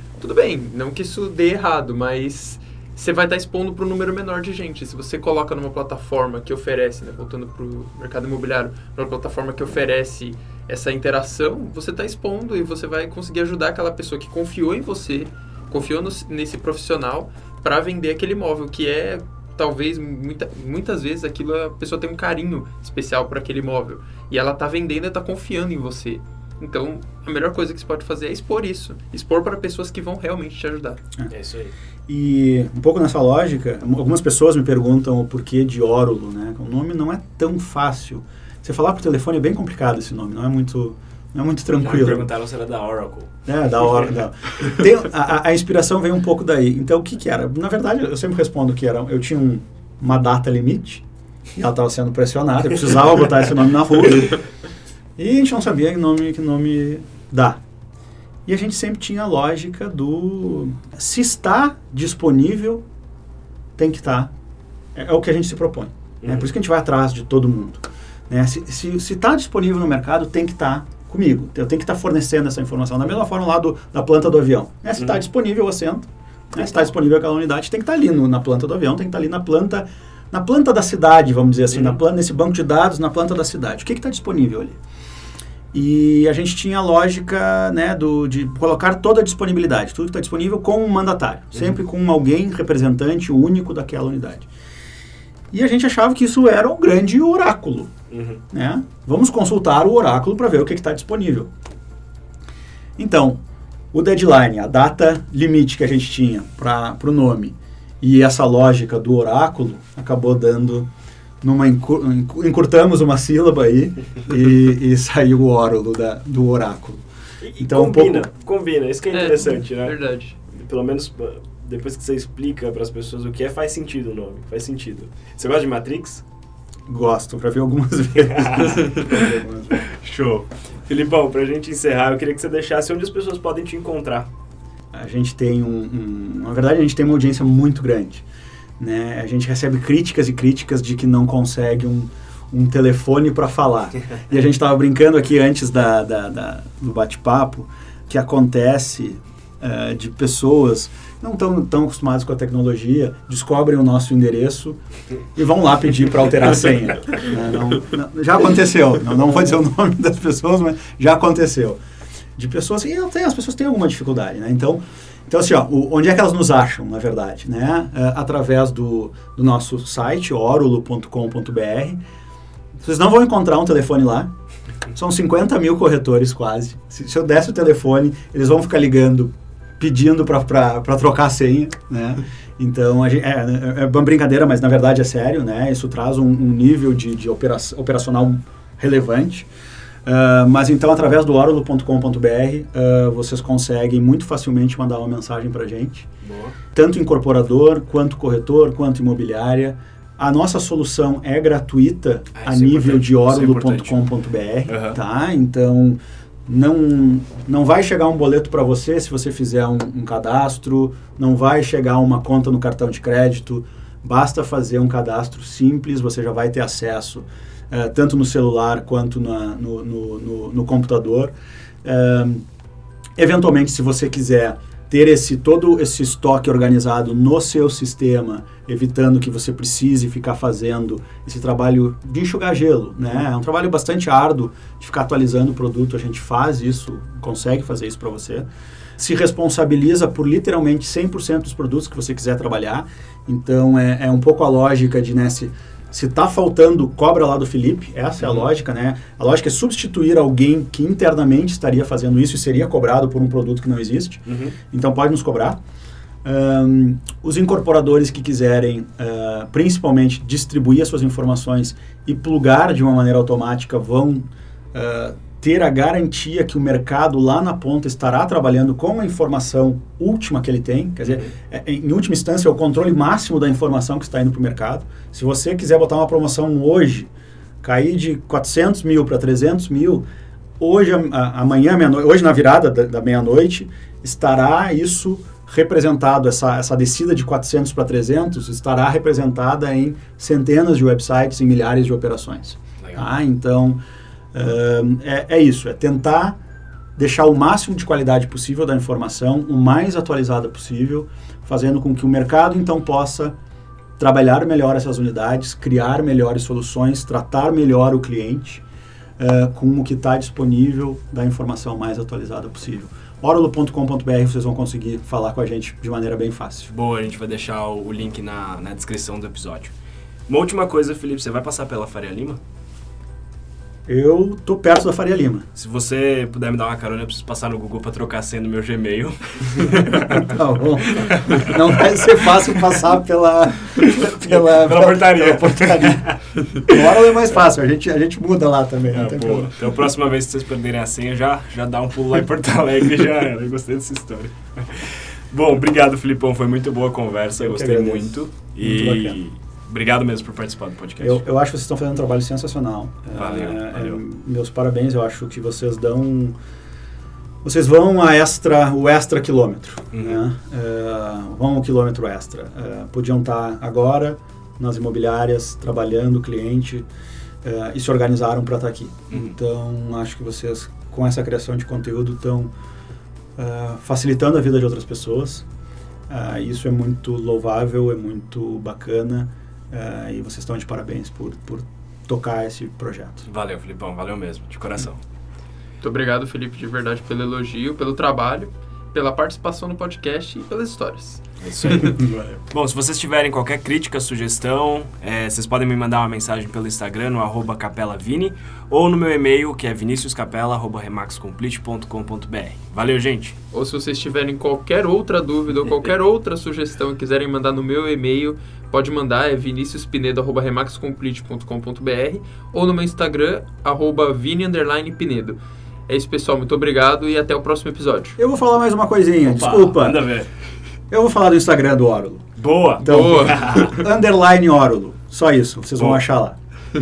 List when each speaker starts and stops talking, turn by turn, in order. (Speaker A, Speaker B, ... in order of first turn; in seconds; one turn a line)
Speaker A: 0.2-31.0
Speaker B: 31.3-31.7
Speaker C: 32.1-42.3
Speaker B: 41.8-43.3
Speaker C: 43.5-51.0
Speaker C: 51.6-54.4
Speaker C: 55.2-57.6
Speaker C: 58.5-62.8
Speaker C: 63.8-64.3
Speaker C: 65.0-84.8
Speaker B: 66.2-66.5
Speaker C: 85.7-94.5
Speaker C: 95.5-97.9
Speaker B: 98.1-98.4
Speaker C: 98.5-101.5
Speaker C: 103.0-103.4
Speaker C: 103.9-110.9
Speaker C: 111.4-117.0
Speaker B: 117.4-120.0
Speaker C: 117.6-118.3
Speaker A: 119.1-120.4
Speaker B: 120.5-126.2
Speaker C: 126.9-129.8
Speaker B: 128.3-129.2
Speaker B: 129.7-134.3
Speaker C: 134.9-138.3
Speaker C: 138.8-154.8
Speaker C: 155.3-161.8
Speaker C: 162.4-172.0
Speaker C: 172.8-174.3
Speaker C: 174.9-189.5
Speaker C: 190.1-196.1
Speaker B: 196.2-196.6
Speaker C: 196.7-222.5
Speaker B: 202.3-204.1
Speaker B: 204.7-205.0
Speaker C: 223.2-238.5
Speaker C: 239.0-255.6
Speaker B: 248.2-248.5
Speaker B: 254.3-254.6
Speaker C: 256.2-277.1
Speaker B: 271.1-271.3
Speaker C: 277.6-280.1
Speaker C: 280.6-293.8
Speaker B: 292.8-293.1
Speaker C: 294.3-296.4
Speaker C: 297.0-303.4
Speaker C: 304.0-308.6
Speaker C: 309.2-316.7
Speaker B: 316.7-319.7
Speaker B: 320.3-322.4
Speaker C: 323.9-325.5
Speaker B: 325.6-330.4
Speaker C: 329.7-339.7
Speaker B: 330.9-332.3
Speaker B: 333.9-336.8
Speaker B: 338.9-351.2
Speaker C: 347.4-349.2
Speaker C: 351.0-356.4
Speaker B: 353.1-354.0
Speaker C: 357.4-366.9
Speaker B: 359.9-360.2
Speaker C: 367.4-372.5
Speaker C: 373.4-375.5
Speaker C: 376.1-383.2
Speaker B: 383.3-385.0
Speaker A: 385.8-391.9
Speaker B: 391.4-403.4
Speaker C: 391.9-392.2
Speaker A: 403.5-418.2
Speaker C: 418.2-420.0
Speaker B: 419.2-420.3
Speaker C: 420.9-422.3
Speaker B: 422.4-423.8
Speaker C: 422.8-426.4
Speaker A: 422.8-423.7